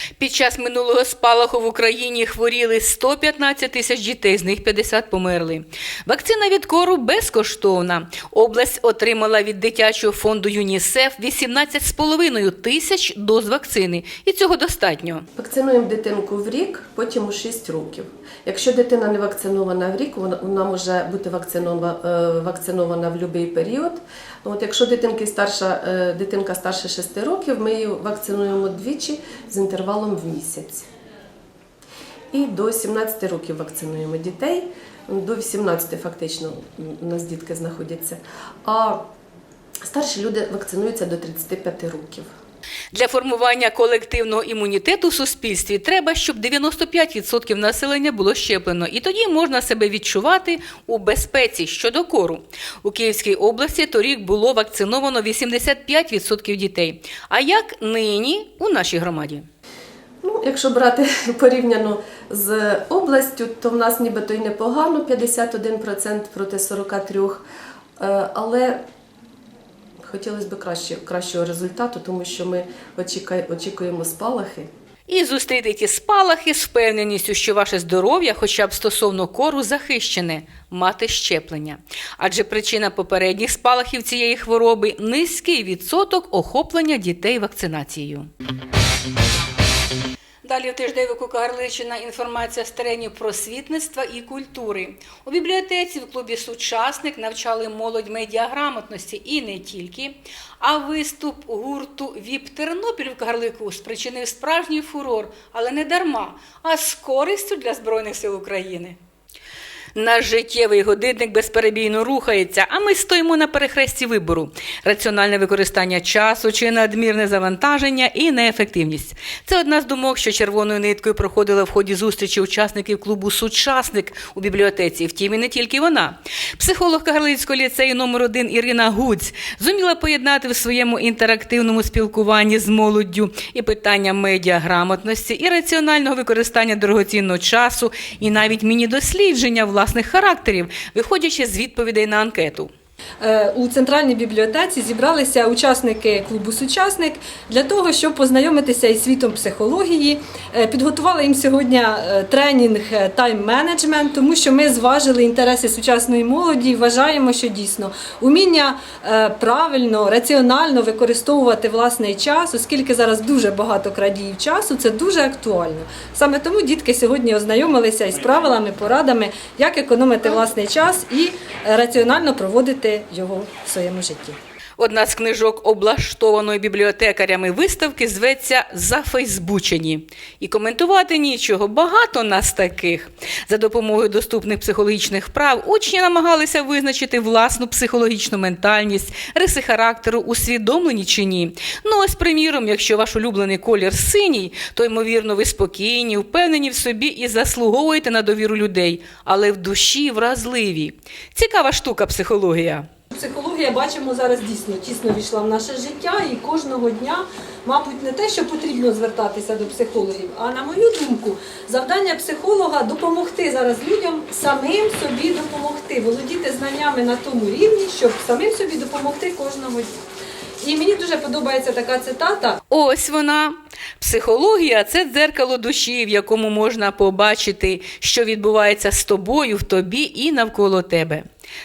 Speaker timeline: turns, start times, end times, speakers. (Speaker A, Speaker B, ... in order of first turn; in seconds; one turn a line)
Speaker A: 0.2-15.3
Speaker B: 15.3-30.9
Speaker B: 32.3-39.1
Speaker B: 39.9-42.3
Speaker A: 42.9-59.5
Speaker B: 60.2-67.4
Speaker B: 68.0-68.8
Speaker B: 70.0-74.7
Speaker A: 75.1-88.3
Speaker A: 90.4-109.0
Speaker A: 109.9-142.7
Speaker C: 143.2-174.4
Speaker A: 174.8-202.9
Speaker C: 203.1-219.9
Speaker C: 220.6-222.6
Speaker A: 222.7-231.2